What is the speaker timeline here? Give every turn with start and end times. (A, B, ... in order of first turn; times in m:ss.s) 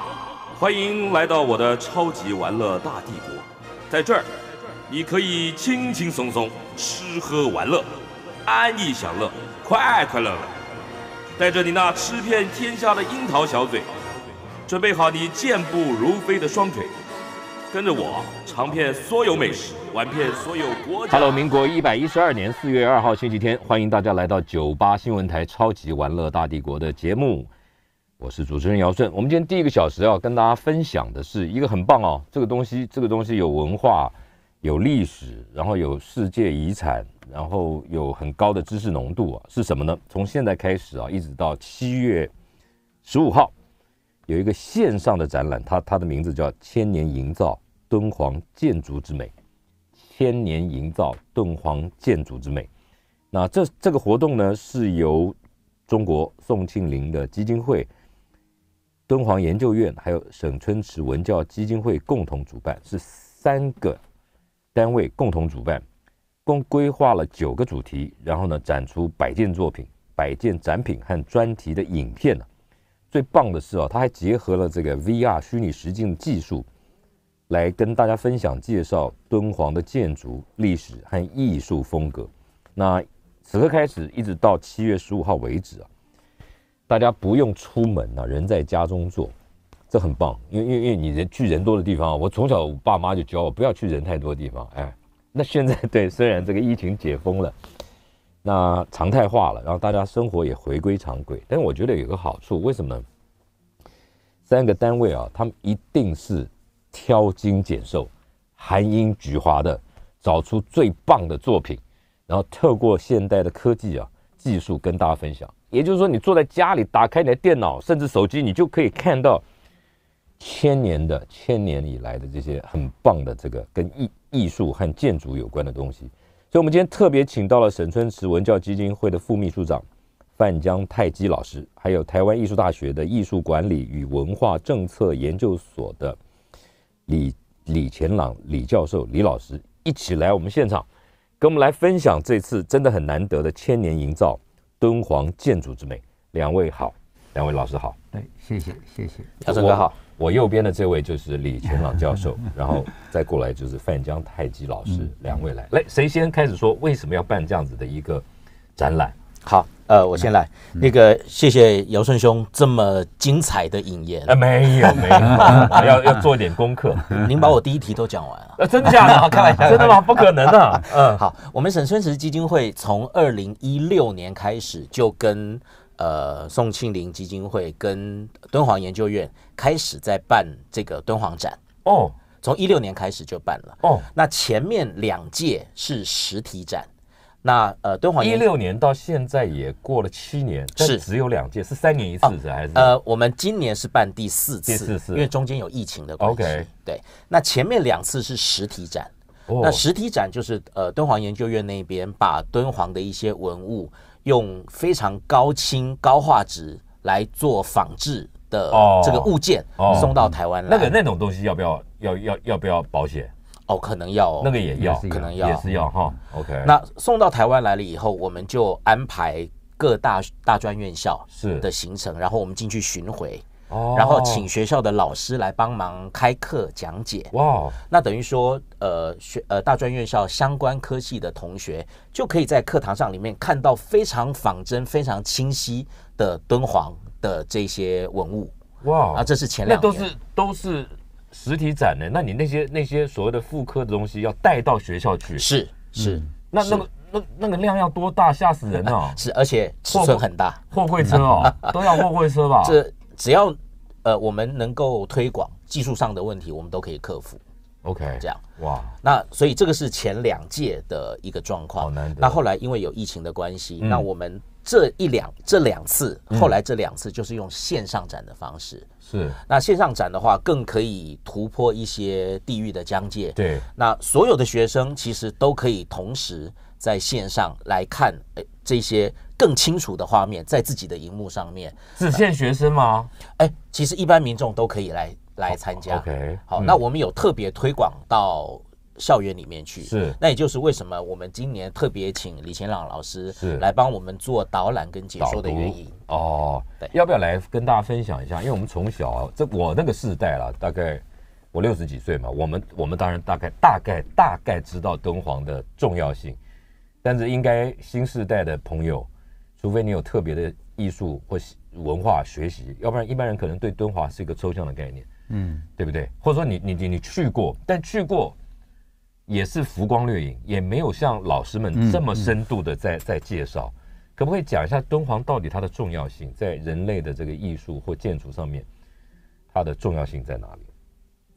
0:00.6-0:04.3 A
0:04.9-0:07.9 A
0:08.5-0:10.5 A
0:11.4-0:13.9 A
0:14.7-0:16.9 A
0:17.7-0:21.4 A
0:21.1-0:27.5 B
0:28.2-0:42.3 B
0:43.0-0:43.5 B
0:44.3-0:49.3 B
0:50.0-0:52.7 B
0:53.3-0:55.4 B
0:55.9-0:57.9 B
0:59.1-1:04.0 B
1:04.7-1:05.8 B
1:06.4-1:12.5 B
1:13.1-1:16.7 B
1:17.5-1:25.9 B
1:26.9-1:29.3 B
1:29.9-1:37.6 B
1:38.4-1:43.0 B
1:44.5-1:59.4 B
2:00.4-2:09.8 B
2:10.4-2:16.2 B
2:17.1-2:20.9 B
2:21.4-2:28.0 B
2:28.1-2:29.3 C
2:29.4-2:30.0 D
2:29.5-2:38.2 B
2:38.8-2:39.2 B
2:39.4-2:45.9 D
2:44.3-2:47.3 B
2:45.3-2:45.6 C
2:47.1-3:01.6 D
2:48.6-2:51.2 B
2:49.3-2:49.7 C
3:01.8-3:02.2 B
3:02.4-3:06.9 D
3:03.8-3:04.1 B
3:07.4-3:08.5 D
3:08.2-3:13.0 B
3:10.8-3:11.1 D
3:12.2-3:31.0 D
3:14.7-3:15.3 B
3:16.2-3:16.7 B
3:19.5-3:19.8 B
3:28.7-3:33.3 B
3:33.7-3:35.7 D
3:34.4-3:36.7 B
3:34.8-3:35.9 C
3:36.6-3:47.3 D
3:41.3-3:41.7 B
3:43.7-3:44.5 B
3:47.3-3:47.8 B
3:47.9-3:58.5 D
3:58.8-4:05.4 B
3:59.1-4:00.1 D
4:05.4-4:06.9 D
4:06.5-4:09.2 B
4:09.1-4:10.6 D
4:09.9-4:12.8 B
4:11.2-4:12.1 D
4:12.6-4:17.4 D
4:17.8-4:19.0 B
4:19.0-4:28.9 D
4:21.8-4:22.4 B
4:29.0-4:29.4 B
4:29.5-4:42.2 D
4:33.4-4:33.6 B
4:42.0-4:43.1 B
4:43.4-4:55.9 D
4:45.5-4:46.8 B
4:49.8-4:50.2 B
4:53.4-4:53.6 B
4:55.2-5:06.4 B
5:07.0-5:09.1 B
5:09.6-5:15.1 B
5:15.3-5:15.6 C
5:15.8-5:18.4 B
5:19.3-5:28.7 B
5:21.7-5:22.3 C
5:29.5-5:30.7 B